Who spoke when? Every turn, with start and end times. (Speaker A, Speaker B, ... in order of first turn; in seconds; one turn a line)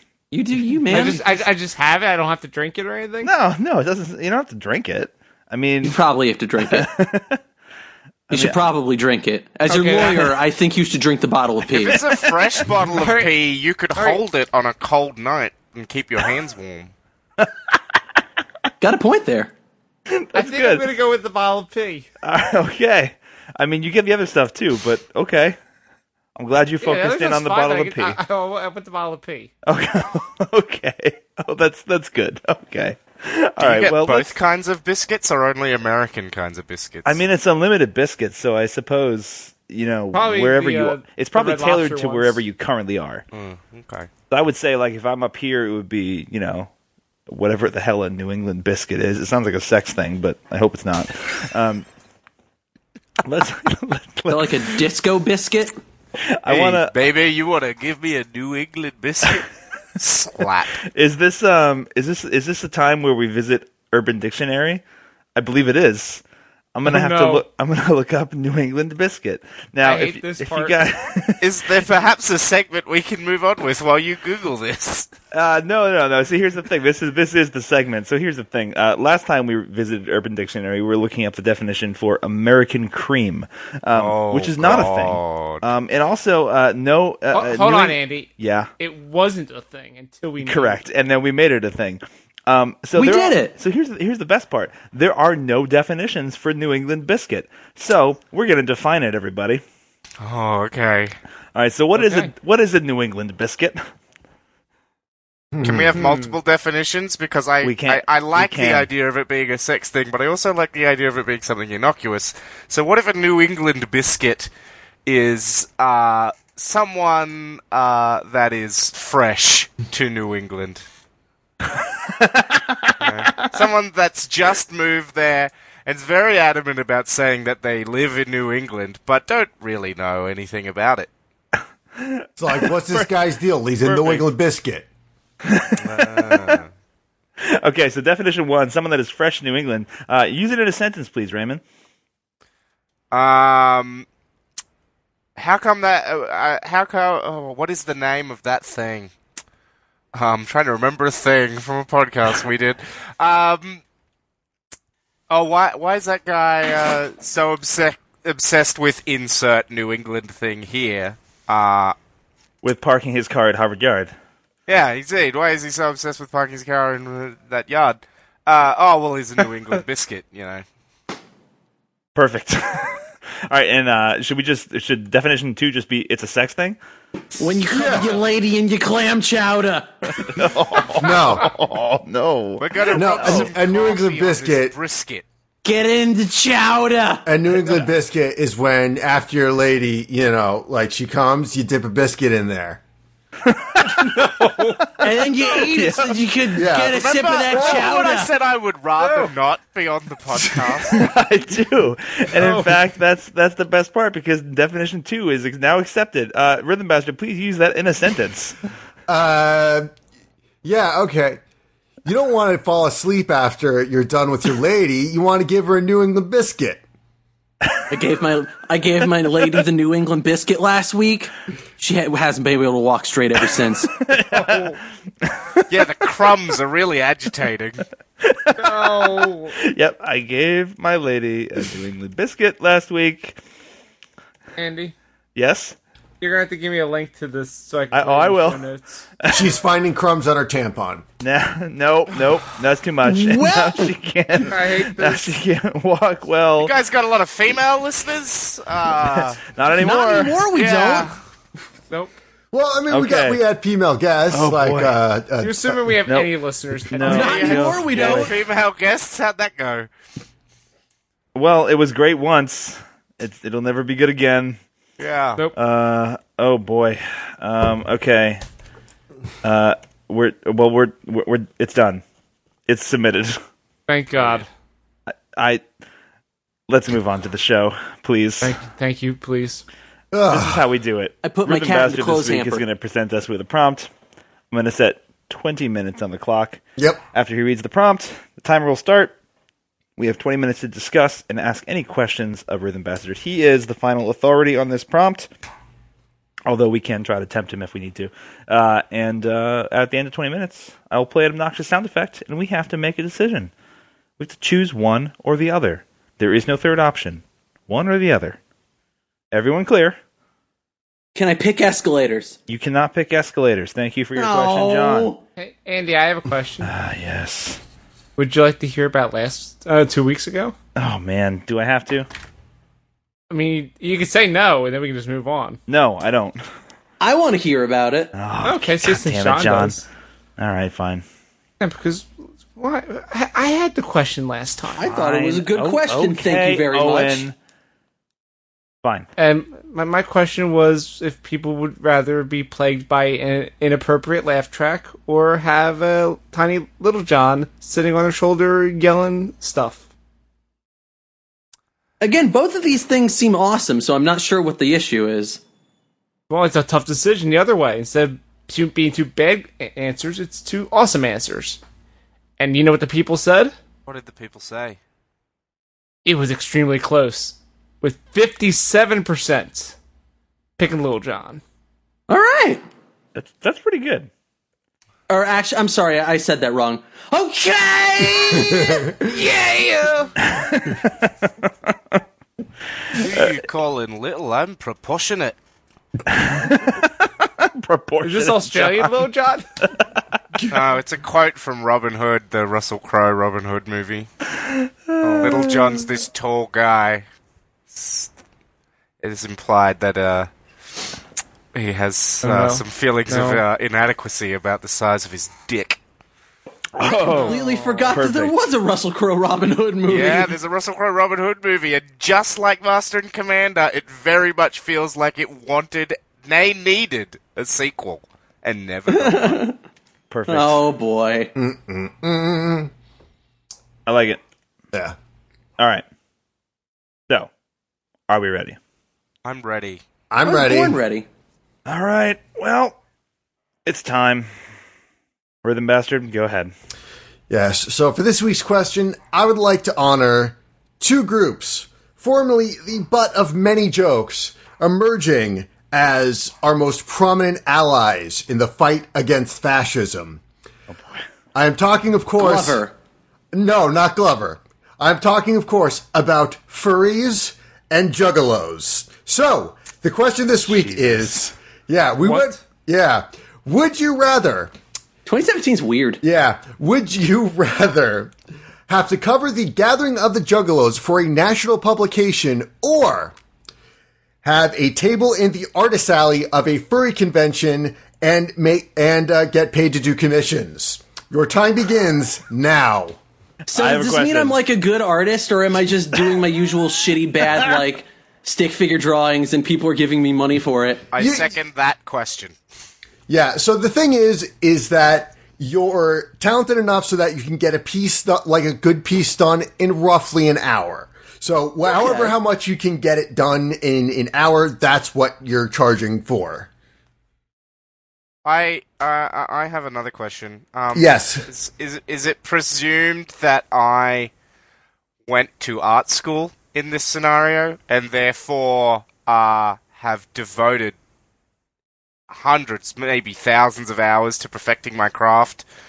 Speaker A: 0.3-1.3
Speaker B: 0.9-3.3
Speaker C: 0.9-1.2
Speaker C: 3.2-6.0
Speaker A: 5.8-6.9
Speaker C: 6.6-7.4
Speaker C: 8.3-8.7
Speaker A: 8.3-12.0
Speaker B: 9.7-10.4
Speaker D: 11.7-16.9
Speaker B: 12.9-13.3
Speaker B: 13.9-14.2
Speaker C: 17.4-18.2
Speaker A: 18.8-19.5
Speaker C: 20.1-20.9
Speaker B: 20.3-22.1
Speaker C: 22.2-25.6
Speaker C: 26.4-28.2
Speaker B: 26.8-29.5
Speaker C: 29.6-34.4
Speaker D: 33.6-37.2
Speaker C: 37.0-43.2
Speaker B: 40.1-42.4
Speaker D: 43.3-44.1
Speaker C: 44.3-46.7
Speaker C: 47.3-51.9
Speaker C: 53.2-54.8
Speaker A: 54.3-55.8
Speaker C: 56.2-56.9
Speaker D: 56.5-60.8
Speaker C: 60.8-64.8
Speaker C: 65.3-66.2
Speaker C: 66.7-71.7
Speaker B: 66.8-67.4
Speaker B: 69.8-70.8
Speaker D: 71.4-75.1
Speaker C: 75.3-88.7
Speaker D: 83.9-85.7
Speaker B: 87.3-90.8
Speaker C: 90.4-99.6
Speaker A: 92.9-93.5
Speaker D: 100.2-101.2
Speaker C: 101.5-103.8
Speaker B: 102.0-102.3
Speaker E: 105.5-105.9
Speaker D: 105.6-114.5
Speaker B: 106.0-106.3
Speaker C: 107.6-108.9
Speaker D: 115.0-120.8
Speaker C: 121.6-123.5
Speaker D: 123.0-131.1
Speaker C: 131.9-133.1
Speaker E: 132.4-134.9
Speaker C: 133.8-134.2
Speaker C: 135.4-136.6
Speaker D: 135.8-136.7
Speaker C: 137.4-141.6
Speaker D: 143.1-144.1
Speaker D: 145.3-149.1
Speaker D: 150.1-153.8
Speaker D: 155.3-161.9
Speaker C: 162.6-164.1
Speaker D: 164.7-170.6
Speaker C: 172.1-176.8
Speaker A: 177.4-179.9
Speaker E: 177.7-178.2
Speaker C: 180.2-183.5
Speaker E: 181.0-181.5
Speaker D: 182.6-185.2
Speaker E: 182.9-184.7
Speaker A: 185.6-187.2
Speaker E: 187.2-192.8
Speaker C: 193.4-196.2
Speaker B: 193.9-194.9
Speaker A: 195.0-198.3
Speaker E: 196.5-197.0
Speaker D: 196.9-201.0
Speaker B: 199.0-199.3
Speaker C: 200.9-208.6
Speaker B: 202.4-202.8
Speaker E: 209.1-209.9
Speaker E: 210.6-211.4
Speaker E: 212.0-216.8
Speaker A: 217.9-223.9
Speaker C: 224.0-225.9
Speaker B: 224.3-224.8
Speaker D: 225.7-227.8
Speaker C: 228.2-233.4
Speaker B: 228.6-229.5
Speaker B: 234.6-234.9
Speaker C: 235.3-235.8
Speaker B: 236.2-239.1
Speaker C: 237.9-238.7
Speaker C: 239.2-239.6
Speaker E: 239.3-241.0
Speaker C: 241.2-246.7
Speaker A: 243.0-243.9
Speaker B: 244.5-245.3
Speaker D: 246.6-249.4
Speaker C: 249.1-250.4
Speaker A: 249.8-251.1
Speaker D: 250.5-251.1
Speaker E: 252.5-255.9
Speaker C: 252.9-253.4
Speaker C: 254.3-255.0
Speaker B: 255.4-257.7
Speaker C: 256.1-256.3
Speaker C: 256.8-258.3
Speaker A: 257.0-258.3
Speaker D: 257.1-259.9
Speaker C: 261.3-264.6
Speaker D: 265.0-265.4
Speaker C: 265.5-268.4
Speaker C: 269.4-272.0
Speaker C: 272.7-273.4
Speaker B: 273.9-274.5
Speaker C: 275.1-275.6
Speaker C: 276.7-278.6
Speaker B: 278.4-279.6
Speaker E: 280.1-280.6
Speaker C: 280.3-283.9
Speaker A: 281.2-282.6
Speaker C: 284.5-286.6
Speaker C: 287.1-289.1
Speaker C: 290.0-295.3
Speaker C: 296.4-303.5
Speaker C: 304.2-308.4
Speaker C: 309.3-310.0
Speaker A: 311.1-312.4
Speaker C: 312.5-315.1
Speaker A: 314.1-315.2
Speaker B: 315.4-316.7
Speaker C: 316.6-317.6
Speaker B: 318.2-320.5
Speaker C: 320.8-322.1
Speaker B: 323.3-325.6
Speaker C: 325.7-326.4
Speaker A: 327.0-328.1
Speaker C: 328.1-329.8
Speaker B: 328.4-329.8
Speaker C: 330.4-331.0
Speaker B: 331.6-334.9
Speaker A: 334.7-337.2
Speaker C: 334.8-337.3
Speaker C: 338.8-339.1
Speaker B: 339.2-349.8
Speaker A: 352.0-355.4
Speaker B: 356.3-361.6
Speaker B: 362.4-363.5
Speaker D: 363.9-364.8
Speaker B: 366.0-369.8
Speaker B: 370.6-371.4
Speaker A: 372.1-372.6
Speaker C: 373.1-374.1
Speaker A: 375.1-378.8
Speaker B: 378.9-380.1
Speaker C: 380.2-382.0
Speaker D: 382.9-385.4
Speaker C: 382.9-383.3
Speaker C: 386.1-389.1
Speaker B: 388.0-389.5
Speaker C: 389.6-390.0
Speaker D: 390.5-394.1
Speaker C: 394.4-395.8
Speaker B: 395.0-395.3
Speaker D: 395.2-397.1
Speaker D: 397.7-398.1
Speaker D: 399.0-400.3
Speaker D: 401.5-405.8
Speaker B: 402.2-403.4
Speaker C: 406.8-408.3
Speaker A: 406.8-410.3
Speaker B: 407.1-407.9
Speaker D: 409.9-419.4
Speaker A: 418.9-419.6
Speaker C: 420.1-420.6
Speaker A: 420.3-421.3
Speaker E: 421.4-422.7
Speaker C: 423.9-424.2
Speaker C: 425.6-425.8
Speaker C: 428.1-428.6
Speaker D: 429.2-429.8
Speaker E: 430.1-430.8
Speaker A: 430.2-431.1
Speaker C: 431.6-432.8
Speaker C: 433.6-434.3
Speaker C: 435.4-436.5
Speaker E: 437.3-450.2
Speaker C: 450.7-451.0
Speaker E: 451.3-452.6
Speaker A: 452.2-452.7
Speaker E: 453.3-464.5
Speaker C: 460.5-461.1
Speaker B: 462.0-462.3
Speaker A: 465.1-466.0
Speaker E: 466.0-468.1
Speaker E: 468.7-473.1
Speaker E: 474.2-483.0
Speaker A: 483.5-490.8
Speaker C: 483.5-484.4
Speaker D: 490.9-492.4
Speaker E: 491.0-491.3
Speaker E: 493.1-506.5
Speaker A: 501.6-502.1
Speaker D: 508.2-514.1
Speaker E: 510.7-511.3
Speaker D: 515.1-520.8
Speaker D: 522.1-525.5